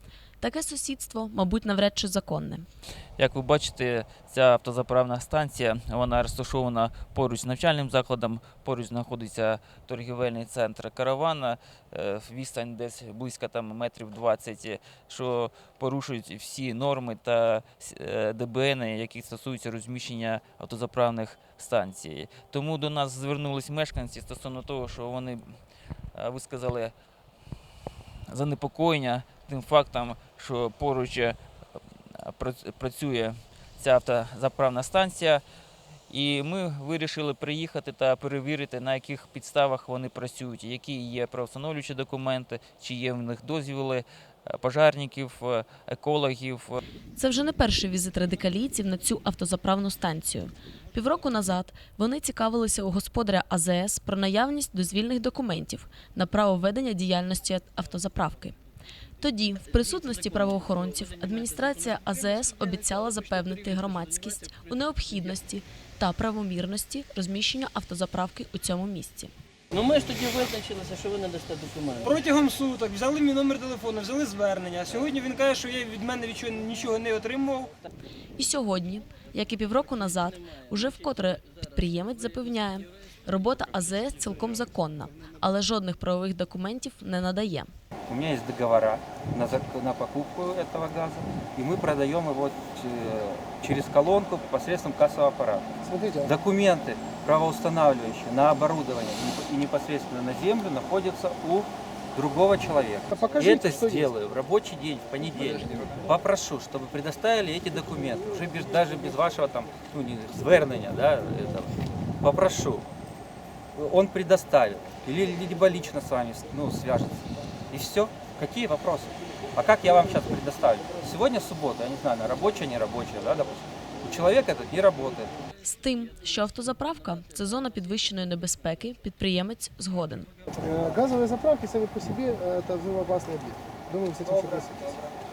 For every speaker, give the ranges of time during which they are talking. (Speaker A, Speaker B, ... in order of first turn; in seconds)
Speaker A: 0.4-2.7, 47.1-58.5, 59.2-69.3, 78.4-87.7, 125.6-130.3
Speaker B: 3.2-25.6, 26.1-26.9, 28.3-31.4, 32.1-35.4, 36.1-46.8
Speaker C: 60.0-62.0, 62.8-63.8, 69.7-72.3
Speaker D: 72.0-77.7
Speaker E: 88.1-95.7, 96.2-112.8, 113.7-125.3
Speaker F: 95.8-96.3, 103.1-104.1, 130.6-135.0